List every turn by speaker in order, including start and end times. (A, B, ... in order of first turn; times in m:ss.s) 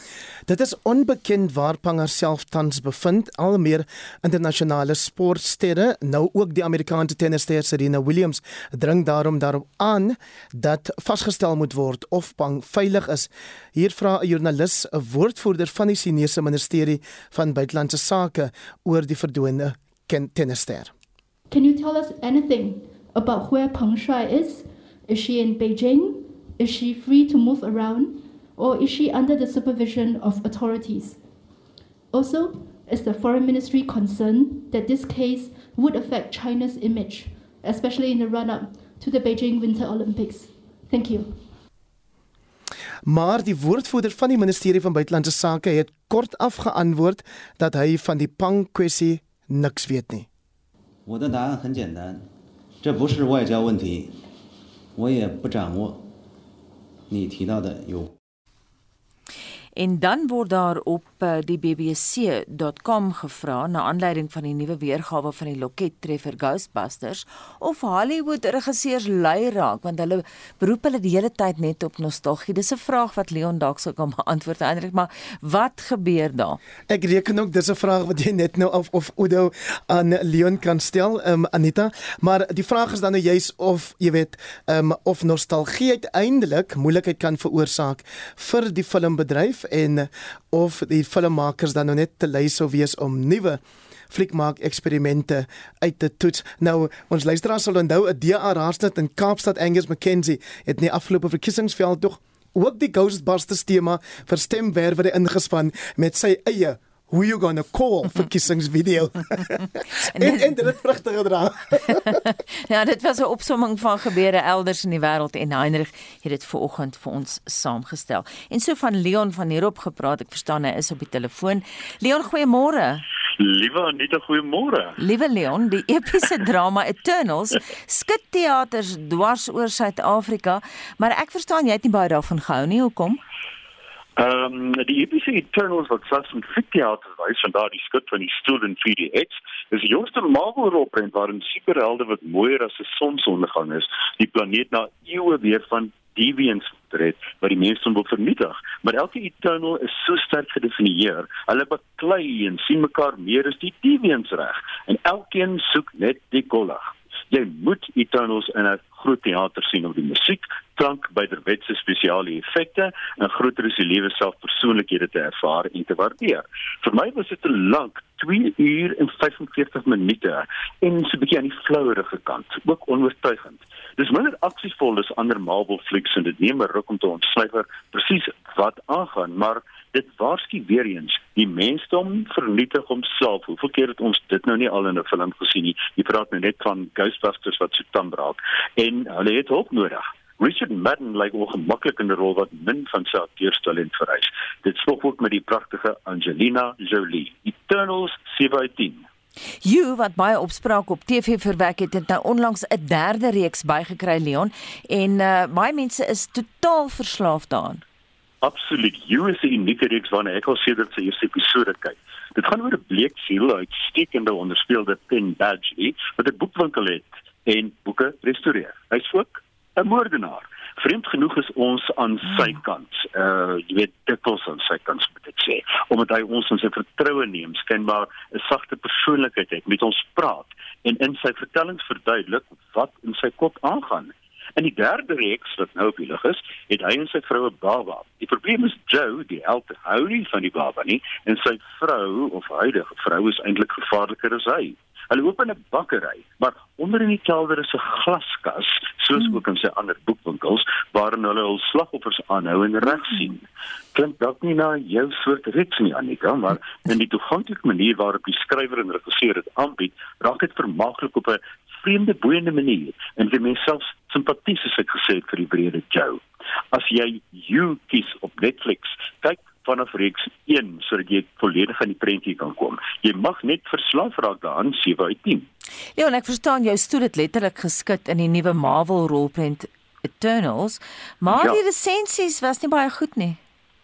0:00.5-0:20.9 A
0:21.5-0:31.2 B
0:32.1-0:41.5 B
0:43.1-0:50.2 A
0:51.0-0:52.3 C
0:52.8-0:54.2 C
0:55.0-0:56.1 C
0:57.1-0:58.1 C
0:59.8-1:16.6 D
1:16.9-1:51.8 A
1:50.2-1:50.5 D
1:52.1-2:03.0 D
2:03.4-2:04.9 E
2:05.0-2:13.2 D
2:14.2-3:19.0 E
3:19.6-3:27.8 D
3:28.4-4:13.4 E
4:13.9-4:26.2 E
4:26.7-4:35.5 E
4:36.0-4:43.4 D